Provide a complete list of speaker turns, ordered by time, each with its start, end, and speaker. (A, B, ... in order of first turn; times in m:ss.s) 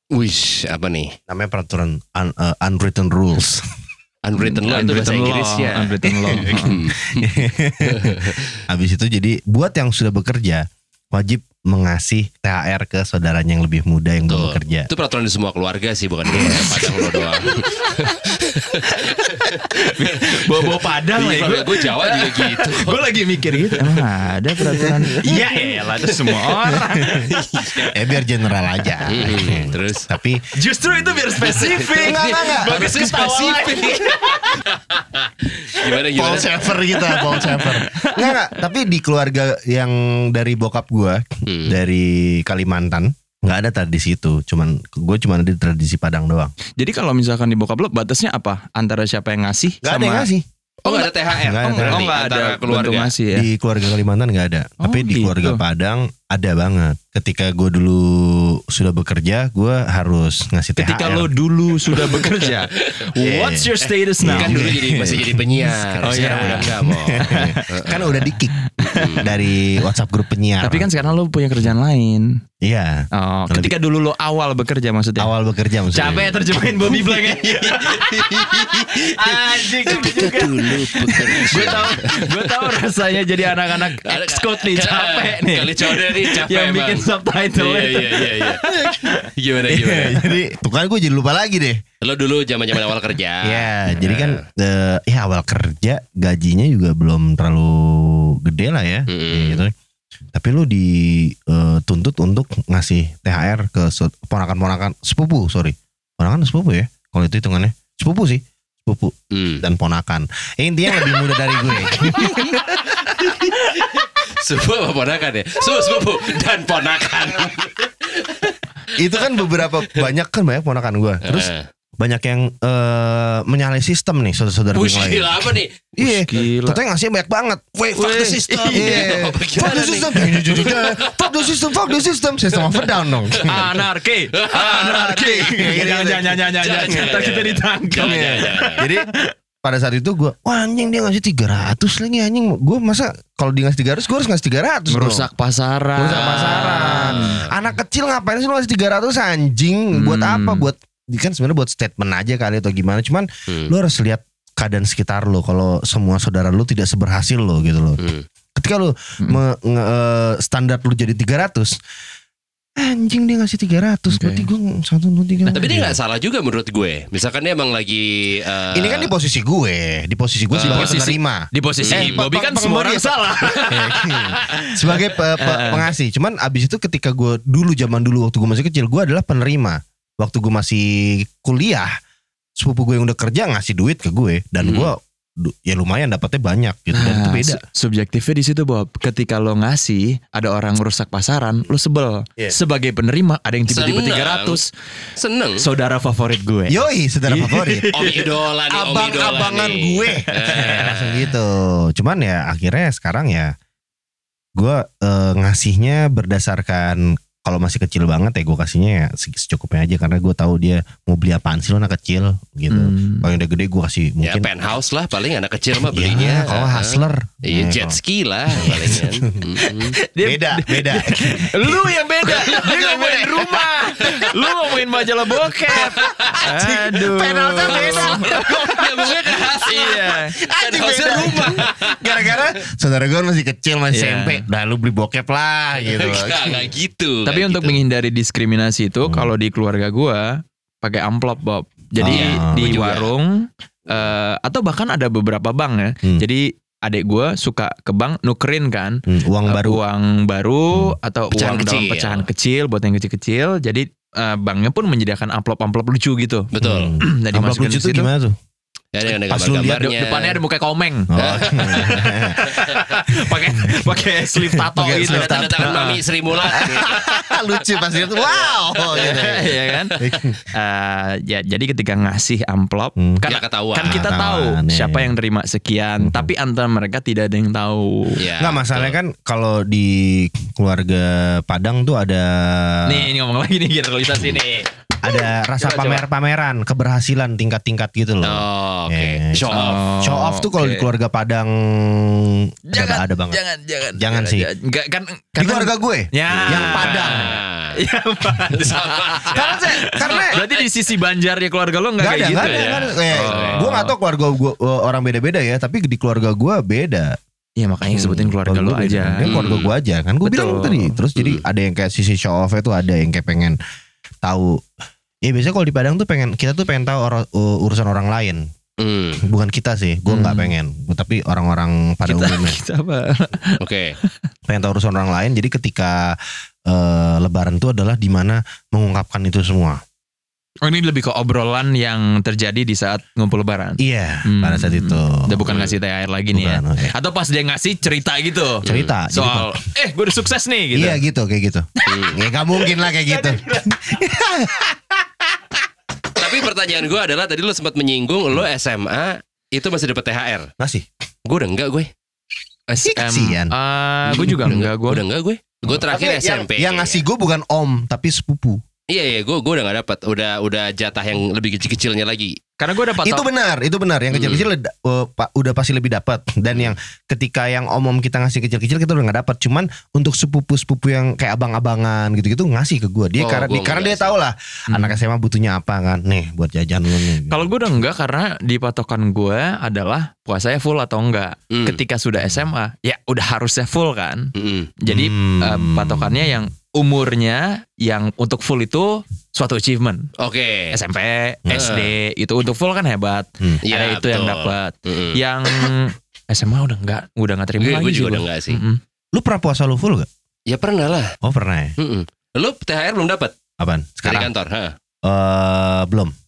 0:00.1-0:01.1 A
0:01.3-0:03.7 B
0:04.2-0:08.4 A
0:04.6-0:06.8 C
0:06.1-0:14.9 B
0:14.3-0:24.0 A
0:16.3-0:18.1 C
0:16.4-0:16.7 B
0:19.7-0:28.2 C
0:24.7-0:25.8 B
0:26.6-0:30.4 B
0:28.8-0:29.4 C
0:29.1-0:30.1 A
0:30.6-0:34.6 C
0:31.4-0:36.7 A
0:32.0-0:33.8 B
0:36.1-0:46.5 B
0:36.9-0:38.6 C
0:41.5-0:41.8 A
0:46.8-0:50.3 C
0:49.8-0:50.4 B
0:50.8-0:53.2 A
0:50.9-0:51.1 C
0:51.4-0:52.1 B
0:51.6-0:53.5 C
0:53.3-1:01.3 B
0:54.8-0:55.6 C
1:00.8-1:04.8 C
1:03.2-1:08.6 B
1:04.3-1:08.3 A
1:06.0-1:07.7 C
1:08.8-1:09.3 A
1:08.9-1:09.3 C
1:09.2-1:11.1 B
1:10.6-1:12.4 C
1:12.6-1:13.8 B
1:13.2-1:15.3 C
1:15.2-1:17.0 B
1:15.9-1:29.2 C
1:17.3-1:22.7 A
1:24.0-1:28.8 A
1:29.4-1:30.3 A
1:29.7-1:31.8 B
1:32.0-1:34.4 A
1:33.4-1:39.7 B
1:39.1-1:39.6 A
1:40.3-1:53.0 B
1:49.3-1:49.6 A
1:51.0-1:51.3 A
1:51.9-1:52.3 A
1:53.0-1:58.6 A
1:59.0-2:13.7 B
1:59.1-2:00.1 A
2:01.2-2:01.7 A
2:04.7-2:05.9 A
2:06.0-2:06.8 C
2:07.8-2:11.9 A
2:08.0-2:09.3 C
2:12.5-2:13.4 A
2:13.4-2:19.3 C
2:14.3-2:14.8 A
2:14.6-2:17.2 B
2:16.6-2:18.9 A
2:18.0-2:19.1 B
2:19.6-2:25.3 B
2:24.9-2:27.4 C
2:26.0-2:38.0 B
2:26.1-2:27.5 A
2:29.9-2:30.7 C
2:38.0-2:38.2 A
2:38.6-2:41.8 B
2:42.8-2:45.9 B
2:44.1-2:44.5 C
2:45.4-2:45.8 C
2:45.5-2:49.1 A
2:48.7-3:01.9 B
2:50.5-2:51.0 A
2:50.6-2:55.8 C
2:51.8-2:52.2 A
3:02.6-3:07.6 B
3:04.6-3:04.9 A
3:06.9-3:14.7 C
3:13.7-3:14.6 A
3:15.2-3:15.6 A
3:15.6-3:18.3 C
3:16.7-3:17.9 B
3:17.9-3:21.3 A
3:18.7-3:23.5 B
3:20.3-3:21.0 C
3:24.6-3:34.5 B
3:32.7-3:33.3 C
3:34.2-3:40.0 A
3:35.9-3:38.0 B
3:38.5-3:39.6 B
3:39.9-3:50.4 C
3:40.2-3:44.4 B
3:45.7-3:49.6 B
3:45.8-3:46.4 A
3:47.6-3:52.5 A
3:50.4-3:56.7 B
3:53.9-3:54.4 C
3:55.8-3:57.8 A
3:57.3-4:00.3 C
3:59.0-3:59.3 B
4:00.8-4:16.5 C
4:02.0-4:02.8 B
4:02.1-4:03.1 A
4:09.1-4:09.8 B
4:11.3-4:12.3 A
4:16.5-4:17.0 A
4:16.6-4:18.4 B
4:17.0-4:18.1 C
4:18.9-4:20.4 A
4:19.1-4:19.9 B
4:19.8-4:26.0 C
4:21.1-4:22.6 B
4:21.2-4:22.8 A
4:24.6-4:25.9 B
4:24.9-4:27.1 A
4:26.4-4:30.4 B
4:28.0-4:29.2 A
4:28.9-4:30.0 C
4:30.5-4:38.2 C
4:33.0-4:33.2 B
4:33.2-4:34.0 A
4:33.8-4:35.2 B
4:36.0-4:36.3 B
4:38.2-4:39.0 A
4:38.4-4:43.1 B
4:42.9-4:44.7 C
4:45.0-4:53.4 B
4:45.6-4:46.0 C
4:48.2-4:49.8 A
4:49.5-4:50.9 C
4:52.7-5:04.0 C
4:54.0-4:54.5 B
4:55.4-4:57.3 B
4:56.4-4:57.7 A
4:58.5-5:00.6 A
4:59.3-5:00.4 B
5:02.0-5:07.2 B
5:02.4-5:03.6 A
5:07.6-5:09.4 C
5:07.9-5:13.6 B
5:09.2-5:09.7 A
5:10.2-5:11.0 C
5:11.2-5:11.4 A
5:14.2-5:14.6 B
5:15.2-5:18.5 B
5:18.8-5:19.2 A
5:19.2-5:22.6 B
5:20.1-5:20.5 C
5:22.1-5:24.1 C
5:23.6-5:24.0 A
5:24.5-5:29.8 B
5:30.6-5:41.0 C
5:33.8-5:35.5 B
5:35.4-5:35.8 A
5:36.3-5:37.0 B
5:38.6-5:38.9 A
5:38.7-5:39.6 B
5:40.7-5:44.8 B
5:41.9-5:42.2 A
5:43.0-5:44.0 C
5:46.2-5:50.5 A
5:50.6-5:50.9 B
5:51.3-5:51.9 A
5:52.7-5:55.0 C
5:52.8-5:53.5 B
5:54.1-5:57.0 A
5:55.7-5:58.6 B
5:58.9-6:02.4 A
6:02.6-6:03.3 C
6:03.0-6:17.8 B
6:04.1-6:04.5 A
6:13.2-6:14.2 A
6:14.7-6:15.0 C
6:17.1-6:30.1 C
6:21.5-6:21.8 A
6:24.4-6:24.7 A
6:24.9-6:26.4 B
6:30.2-6:30.8 A
6:30.7-6:38.8 C
6:31.4-6:31.8 B
6:31.5-6:31.9 A
6:33.6-6:35.2 A
6:37.6-6:38.6 A
6:39.1-6:40.1 B
6:40.5-6:41.1 A
6:41.2-6:41.8 B
6:41.8-6:43.4 A
6:43.6-6:44.3 B
6:44.0-6:44.8 A
6:45.0-6:46.1 B